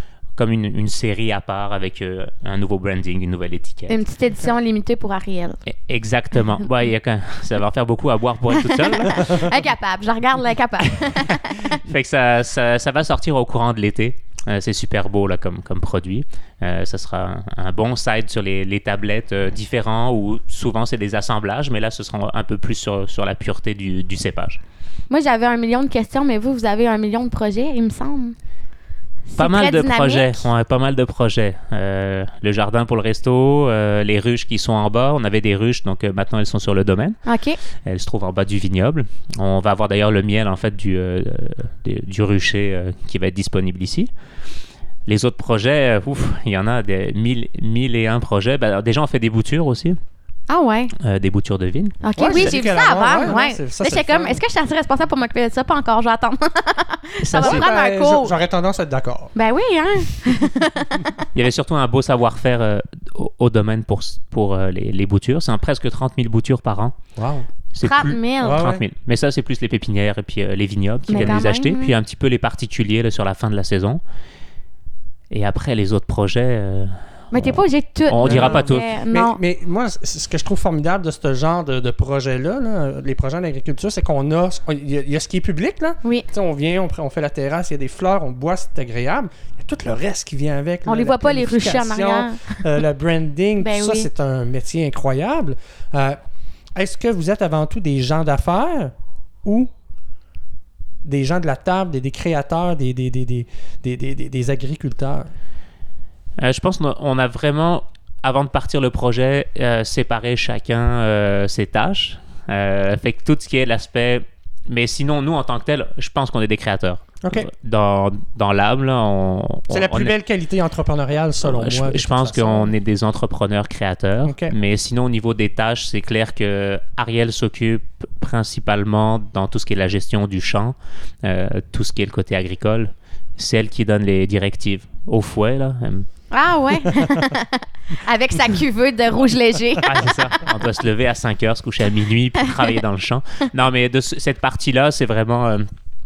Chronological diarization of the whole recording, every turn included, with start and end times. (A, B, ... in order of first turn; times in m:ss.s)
0:00.4-0:04.0 A
0:03.9-0:05.6 B
0:05.7-0:09.5 A
0:08.6-0:11.7 B
0:11.7-0:24.6 A
0:25.1-0:28.4 B
0:29.3-0:30.5 B
0:29.4-0:37.2 A
0:37.3-0:37.6 B
0:37.8-0:44.1 A
0:45.1-0:50.0 A
0:50.5-0:50.9 B
0:51.0-0:52.6 A
0:52.0-0:58.4 B
0:52.2-0:54.4 C
0:57.2-0:57.7 A
0:57.4-0:59.3 C
0:59.4-1:01.3 B
1:01.3-1:07.0 A
1:07.2-1:07.5 C
1:07.7-1:14.0 A
1:07.8-1:08.7 B
1:08.4-1:08.8 C
1:11.1-1:11.9 B
1:11.1-1:11.4 C
1:15.3-1:18.9 A
1:17.3-1:19.4 B
1:18.2-1:36.2 C
1:30.9-1:32.6 B
1:33.6-1:34.1 B
1:36.8-1:38.9 C
1:39.4-1:39.7 C
1:41.0-1:45.3 C
1:46.4-2:00.2 A
1:57.2-1:57.5 C
1:59.7-2:02.7 C
2:01.4-2:16.1 A
2:04.2-2:04.5 C
2:16.3-2:20.1 B
2:19.8-2:25.7 A